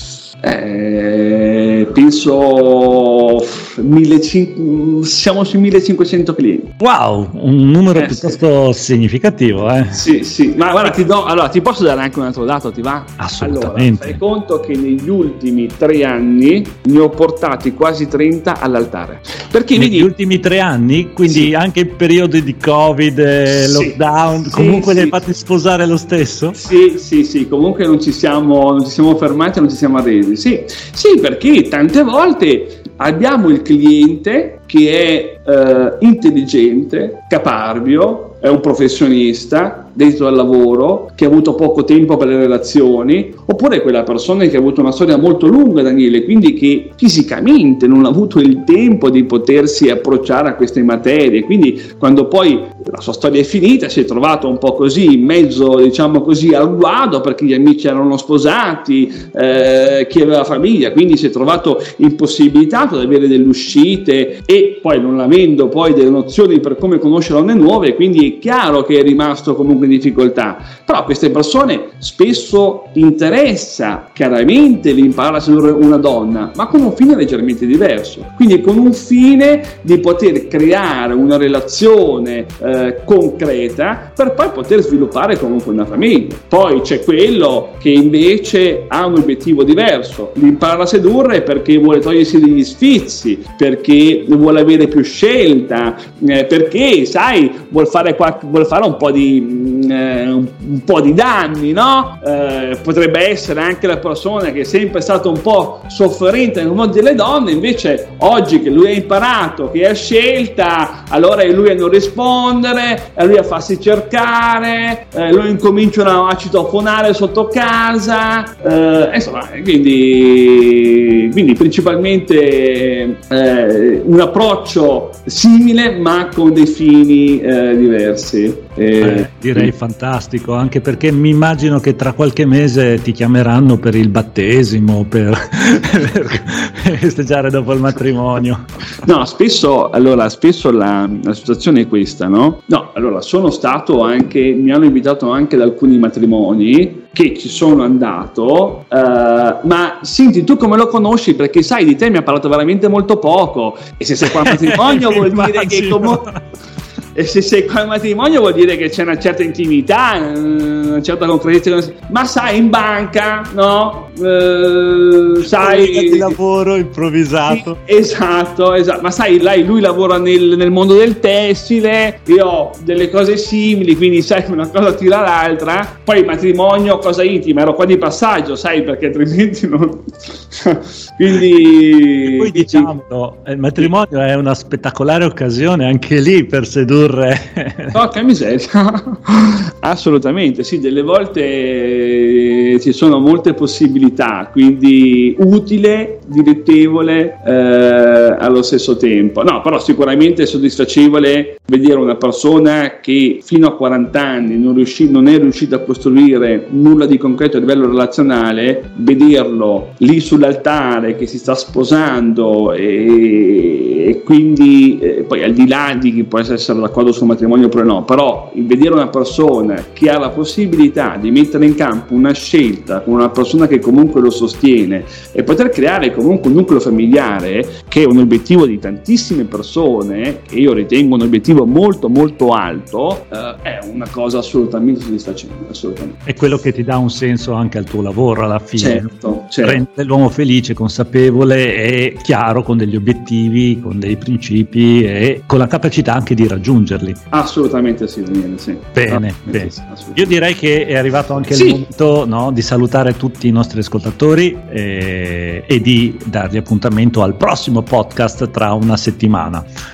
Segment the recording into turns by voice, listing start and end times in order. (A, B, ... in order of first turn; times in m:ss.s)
0:00.4-0:06.7 A
0:06.8-0:10.0 B
0:07.9-0:08.4 A
0:09.9-0:20.1 A
0:13.2-0:14.2 B
0:19.8-0:26.6 B
0:23.5-0:24.0 A
0:24.5-0:25.2 A
0:26.5-2:09.7 A
2:09.0-2:18.7 B
2:19.0-2:36.3 A
2:34.2-2:36.4 B
2:37.1-2:46.4 A
2:45.4-2:47.8 B
2:47.5-3:02.9 A
3:02.2-3:08.0 B
3:07.9-3:56.3 A
3:56.2-3:59.1 B
3:58.8-3:59.8 A
3:59.6-4:07.2 B
4:07.3-4:10.3 A
4:08.9-4:19.7 B
4:11.5-4:11.8 A